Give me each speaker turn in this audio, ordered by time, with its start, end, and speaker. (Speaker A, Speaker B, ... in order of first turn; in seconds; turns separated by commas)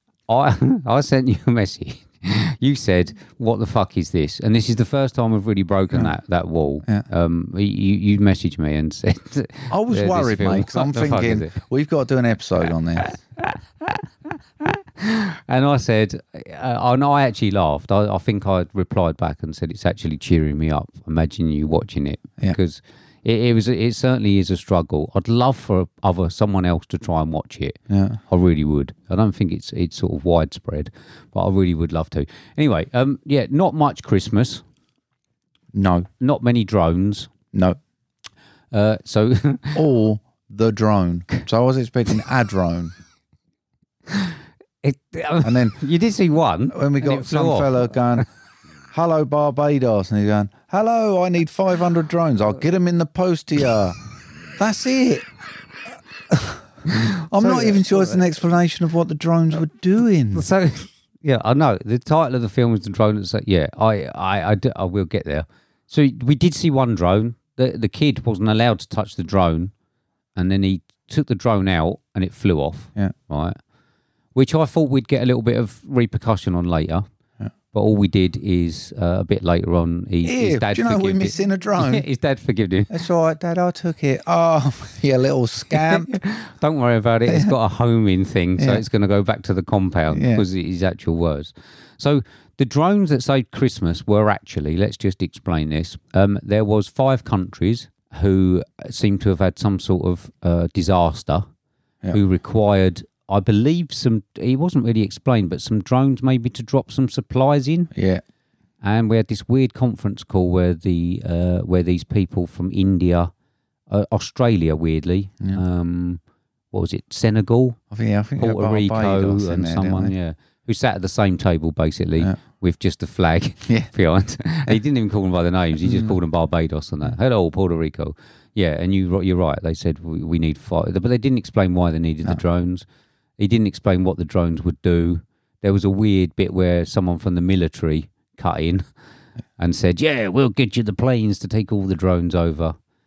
Speaker A: 0.3-11.6, Speaker B: 9.7-13.1, Speaker A: 13.1-34.6, Speaker B: 27.9-28.2, Speaker B: 35.7-36.1, Speaker A: 36.2-37.3, Speaker B: 37.5-37.8, Speaker A: 38.7-39.8, Speaker B: 39.7-42.9, Speaker A: 44.8-48.2, Speaker B: 45.4-45.7, Speaker B: 46.7-48.2, Speaker B: 48.9-54.0, Speaker B: 54.6-55.2, Speaker B: 56.3-60.4, Speaker A: 57.3-58.2, Speaker A: 60.3-69.7, Speaker A: 70.3-73.6, Speaker A: 74.3-77.0, Speaker A: 77.7-83.0, Speaker B: 80.2-82.0, Speaker B: 82.9-86.1, Speaker A: 85.7-101.5, Speaker B: 87.3-87.5, Speaker B: 88.6-88.8, Speaker B: 90.1-90.4, Speaker A: 102.1-107.9, Speaker B: 107.9-108.2, Speaker A: 108.8-113.3, Speaker A: 113.9-116.2, Speaker A: 116.7-117.8, Speaker B: 117.9-120.1, Speaker A: 118.4-132.8, Speaker B: 125.8-126.2, Speaker A: 133.4-138.8, Speaker A: 139.6-142.7